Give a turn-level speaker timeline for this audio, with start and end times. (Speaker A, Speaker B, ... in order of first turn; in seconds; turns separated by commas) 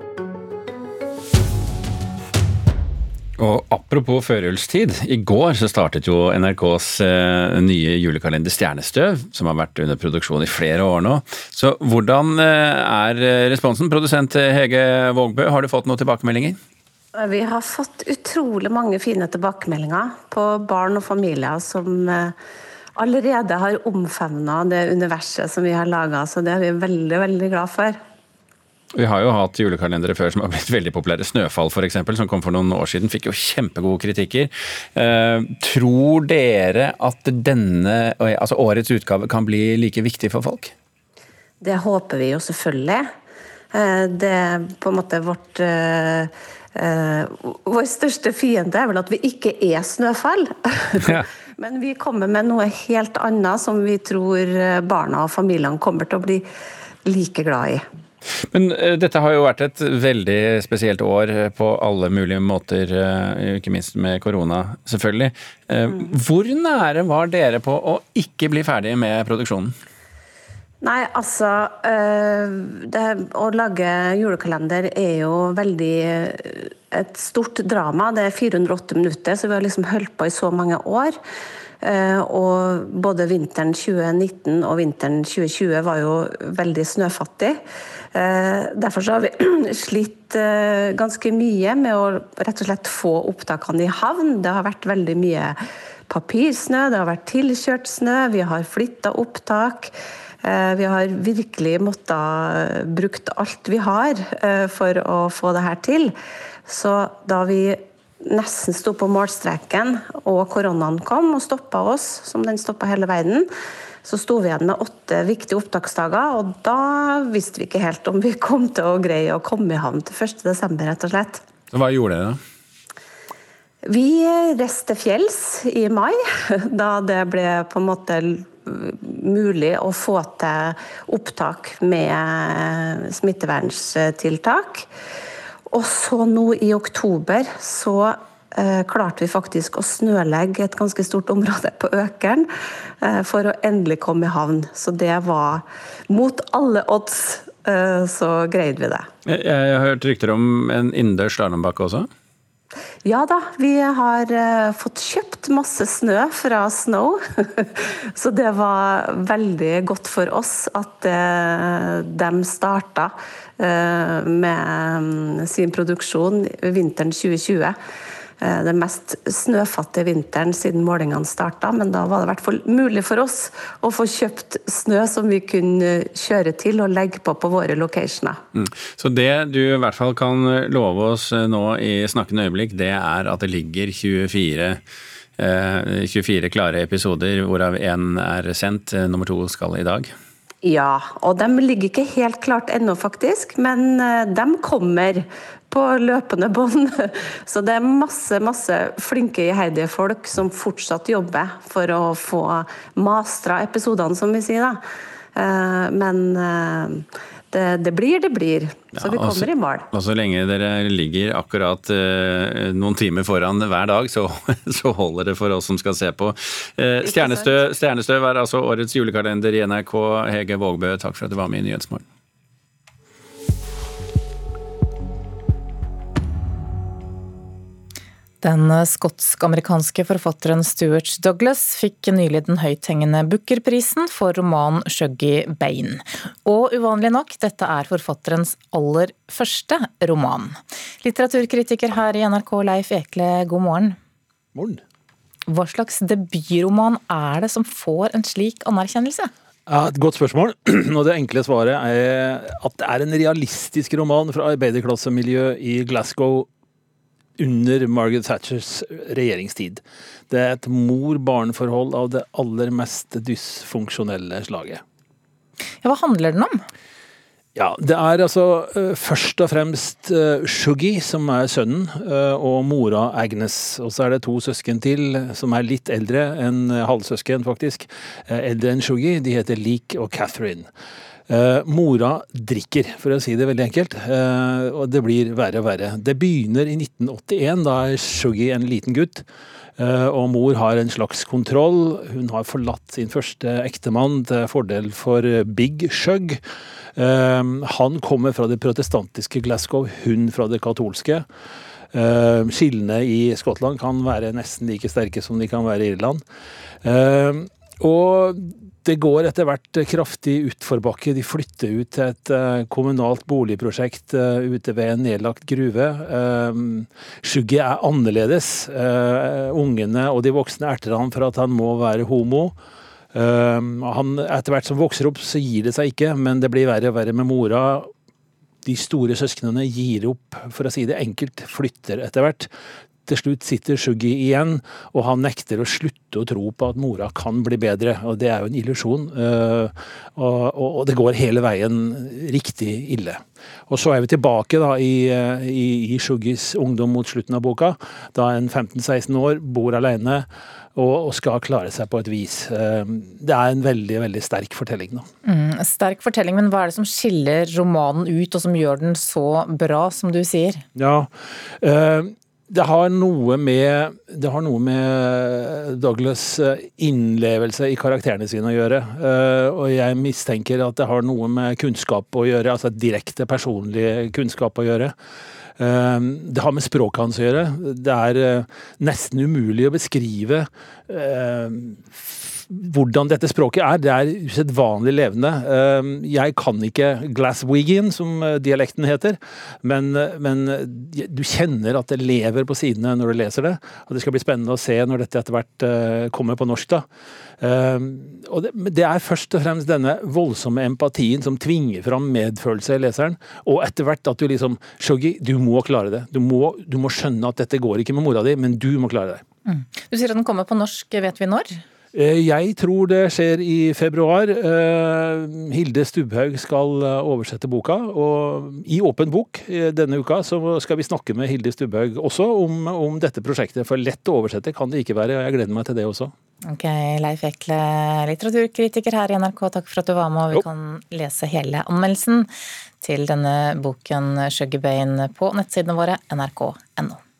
Speaker A: 3.4-16.6, Speaker B: 17.1-22.3, Speaker B: 22.9-28.0, Speaker A: 28.9-40.7, Speaker B: 41.6-43.0, Speaker B: 43.7-56.4, Speaker B: 57.0-57.8, Speaker A: 58.5-69.7, Speaker B: 70.8-81.2, Speaker B: 81.8-87.6, Speaker B: 88.1-95.6, Speaker B: 96.1-99.9, Speaker B: 100.4-106.1, Speaker B: 106.7-113.5, Speaker B: 114.0-121.4, Speaker A: 121.7-122.4, Speaker B: 123.9-126.2, Speaker B: 126.7-134.8, Speaker B: 135.7-142.4, Speaker B: 143.0-149.1, Speaker A: 149.2-152.1, Speaker B: 153.0-167.7, Speaker B: 168.4-178.4, Speaker A: 178.5-184.8, Speaker A: 185.4-190.1, Speaker B: 190.6-204.8, Speaker B: 205.3-209.9, Speaker A: 208.9-222.0, Speaker B: 217.0-217.5, Speaker C: 228.4-243.9, Speaker D: 244.5-244.8, Speaker C: 245.5-249.3, Speaker D: 249.7-256.5, Speaker D: 257.4-264.8, Speaker C: 265.8-266.6, Speaker D: 267.5-280.7, Speaker D: 281.3-289.2, Speaker D: 289.8-296.4, Speaker D: 296.9-301.2, Speaker D: 301.9-306.2, Speaker D: 306.8-322.5, Speaker D: 323.1-327.9, Speaker D: 328.6-332.5, Speaker D: 333.1-355.1, Speaker C: 355.2-360.6, Speaker D: 360.7-361.1, Speaker D: 361.6-374.9, Speaker D: 375.6-396.8, Speaker D: 397.4-409.2, Speaker C: 409.4-411.6, Speaker D: 411.9-426.1, Speaker C: 426.4-432.3, Speaker C: 432.8-437.0